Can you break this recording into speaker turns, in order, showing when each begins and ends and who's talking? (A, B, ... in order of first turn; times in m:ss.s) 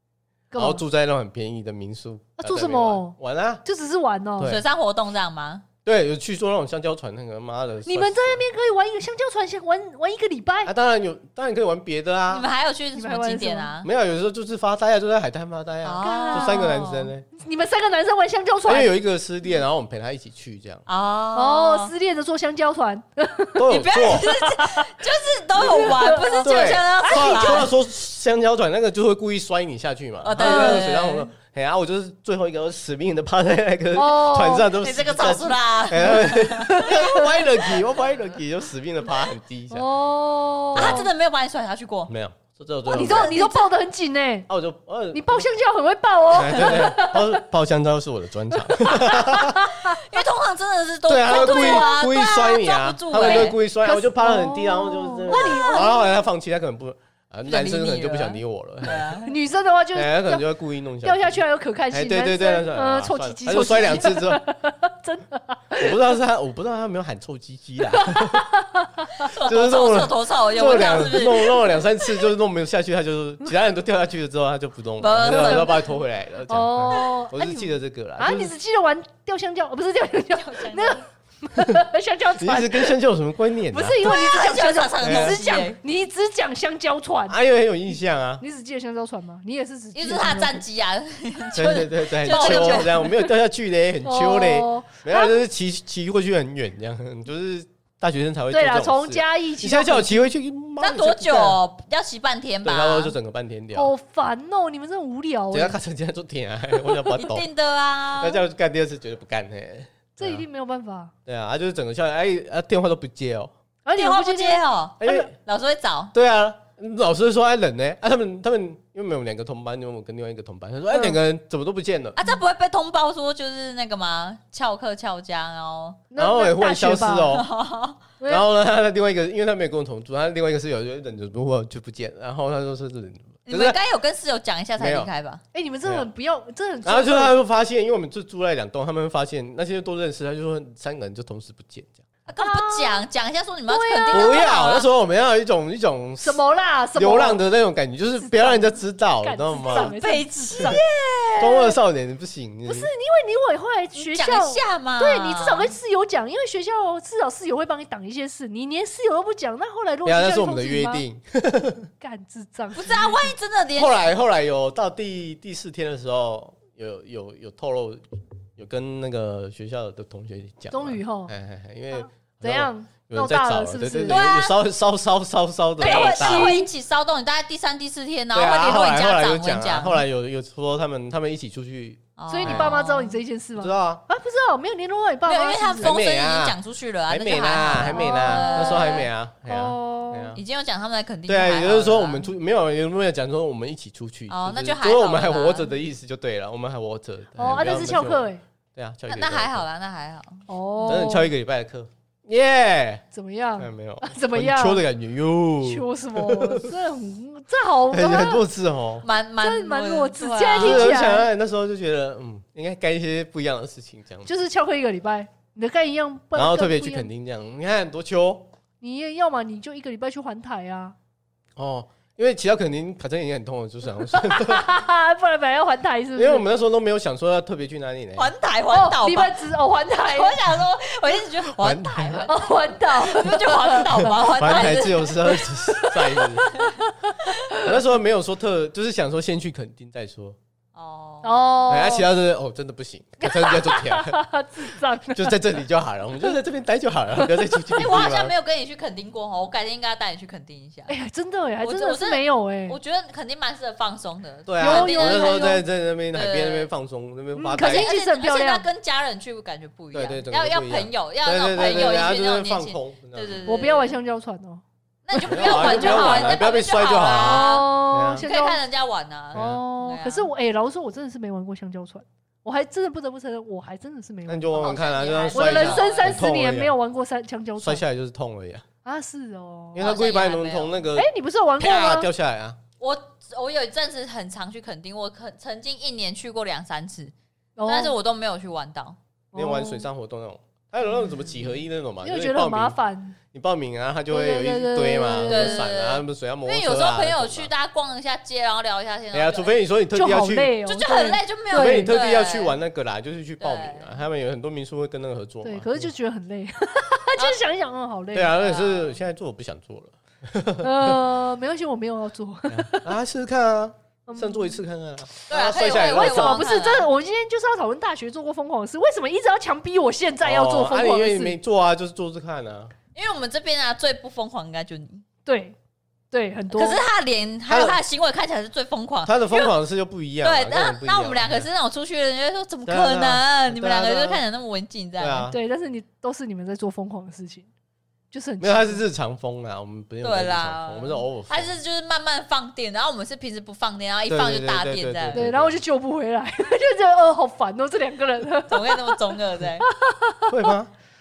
0:00.5-0:00.8 A
0:00.6-0:03.6 B
0:02.4-0:04.6 A
0:04.4-0:04.6 B
0:04.4-0:05.6 C
0:05.8-0:08.4 B
0:07.9-0:10.7 A
0:10.6-0:12.5 B
0:12.3-0:13.9 C
0:13.0-0:13.7 A
0:13.8-0:17.2 B
0:15.8-0:17.1 C
0:16.0-0:16.8 A
0:17.4-0:18.9 A
0:18.7-0:20.8 B
0:20.9-0:21.9 C
0:21.4-0:24.9 A
0:23.6-0:24.3 B
0:23.7-0:27.7 C
0:25.6-0:27.7 A
0:26.4-0:39.9 B
0:30.2-0:31.3 C
0:30.4-0:30.8 A
0:33.9-0:34.7 A
0:34.8-0:37.8 C
0:36.6-0:37.3 A
0:39.7-0:41.1 A
0:40.7-0:42.1 C
0:40.8-0:41.0 B
0:42.1-0:43.4 B
0:42.9-0:44.5 A
0:42.9-0:43.6 C
0:44.5-0:45.5 B
0:45.1-0:47.4 A
0:46.3-0:49.7 B
0:48.8-0:50.0 A
0:49.1-0:53.6 C
0:51.1-0:59.2 B
0:51.3-0:51.9 A
0:53.2-0:56.2 A
0:55.3-0:55.9 C
0:57.5-0:59.3 C
0:59.2-1:00.4 A
0:59.9-1:01.4 B
1:01.0-1:06.0 A
1:01.9-1:04.4 B
1:05.8-1:08.5 B
1:07.9-1:09.3 A
1:09.2-1:11.6 C
1:09.4-1:18.5 B
1:15.0-1:15.9 C
1:15.3-1:15.7 A
1:16.5-1:23.0 A
1:20.3-1:21.0 C
1:22.4-1:24.1 B
1:23.7-1:27.4 A
1:24.0-1:25.8 C
1:25.0-1:25.4 B
1:27.3-1:28.4 B
1:28.4-1:30.6 A
1:30.0-1:33.1 C
1:31.6-1:41.6 B
1:32.3-1:33.1 A
1:34.0-1:35.4 A
1:38.5-1:40.3 A
1:40.8-1:43.2 C
1:42.6-1:43.9 B
1:43.8-1:45.8 A
1:45.5-1:47.5 B
1:47.0-1:48.4 C
1:48.1-1:50.4 B
1:50.2-1:51.1 A
1:51.3-1:53.5 B
1:53.8-1:55.3 A
1:54.0-1:56.1 C
1:55.0-1:55.3 B
1:56.1-2:02.2 B
2:00.9-2:01.2 A
2:02.2-2:06.0 C
2:06.1-2:07.4 A
2:06.2-2:07.5 B
2:07.3-2:08.0 C
2:08.2-2:08.5 A
2:08.3-2:13.8 B
2:13.5-2:15.4 C
2:14.8-2:15.1 B
2:15.5-2:17.4 A
2:16.8-2:22.0 B
2:22.3-2:24.9 C
2:22.4-2:23.0 A
2:23.7-2:24.5 A
2:24.1-2:26.4 B
2:26.2-2:27.4 A
2:27.0-2:30.0 B
2:28.2-2:30.8 A
2:29.7-2:31.8 C
2:31.4-2:32.9 B
2:32.7-2:41.0 A
2:34.0-2:35.7 C
2:40.0-2:41.9 B
2:42.0-2:43.2 A
2:42.8-2:44.1 C
2:43.8-2:48.0 B
2:48.6-2:56.6 B
2:50.7-2:51.3 A
2:51.9-2:54.2 A
2:54.1-2:54.6 C
2:55.8-2:56.7 A
2:55.8-3:00.0 C
2:58.3-3:02.8 B
3:02.2-3:03.2 C
3:02.3-3:05.9 A
3:03.6-3:04.0 B
3:05.3-3:09.1 C
3:05.8-3:10.4 B
3:07.8-3:10.3 A
3:10.4-3:12.3 C
3:11.3-3:19.6 B
3:14.3-3:15.7 C
3:17.4-3:18.4 A
3:19.1-3:21.1 C
3:20.5-3:21.3 A
3:20.9-3:23.0 B
3:23.1-3:24.8 A
3:23.6-3:26.7 B
3:25.6-3:28.4 A
3:27.9-3:29.1 B
3:29.0-3:30.9 C
3:29.4-3:31.3 A
3:30.6-3:34.3 B
3:34.3-3:37.1 A
3:36.4-3:38.5 B
3:38.8-3:41.0 A
3:41.6-3:44.7 B
3:44.1-3:46.5 A
3:46.2-3:48.3 B
3:48.2-3:55.3 C
3:48.7-3:50.4 A
3:51.5-3:52.3 B
3:52.3-3:54.8 A
3:53.9-3:56.5 B
3:55.3-3:57.7 A
3:56.6-3:57.3 C
3:57.6-4:00.4 B
4:00.8-4:01.5 C
4:01.2-4:02.1 A
4:01.7-4:04.2 B
4:03.2-4:05.4 A
4:05.1-4:08.3 B
4:07.2-4:07.8 A
4:07.8-4:10.9 C
4:10.9-4:12.8 A
4:11.6-4:16.7 C
4:14.5-4:17.9 B
4:14.6-4:15.6 A
4:17.4-4:18.6 A
4:17.6-4:24.0 C
4:19.9-4:23.6 B
4:23.5-4:24.6 A
4:25.1-4:30.3 C
4:25.1-4:26.4 A
4:25.2-4:28.2 B
4:27.2-4:28.6 A
4:29.3-4:29.6 B
4:29.3-4:37.8 A
4:34.3-4:36.7 B
4:34.6-4:36.3 C
4:37.6-4:38.6 B
4:38.8-4:39.8 A
4:39.7-4:41.1 B
4:39.8-4:40.8 C
4:41.0-4:42.1 A
4:41.6-4:42.6 B
4:42.8-4:47.1 C
4:47.6-4:48.0 A
4:47.7-4:49.0 C
4:49.3-4:49.9 A
4:49.3-4:52.8 B
4:52.0-4:53.2 A
4:53.3-4:57.5 B
4:54.1-4:55.7 A
4:55.3-4:59.5 C
4:59.1-5:00.6 B
4:59.9-5:01.9 A
5:00.7-5:02.6 C
5:01.5-5:05.9 B
5:03.4-5:03.9 C
5:05.4-5:08.4 A
5:08.1-5:11.0 B
5:08.4-5:09.0 C
5:10.6-5:12.9 A
5:12.5-5:16.4 B
5:14.1-5:14.6 A
5:15.3-5:16.9 C
5:15.5-5:21.4 A
5:20.2-5:22.7 B
5:23.0-5:25.0 C
5:25.2-5:25.6 A
5:26.1-5:26.8 A
5:26.6-5:29.6 C
5:27.5-5:27.8 B
5:29.0-5:31.5 B
5:30.2-5:35.3 C
5:32.7-5:34.2 B
5:35.0-5:35.4 B
5:35.3-5:37.5 A
5:38.1-5:38.8 A
5:38.4-5:41.6 B
5:40.0-5:45.2 C
5:44.1-5:45.6 B
5:45.1-5:50.5 A
5:48.5-5:49.7 C
5:50.3-5:50.7 B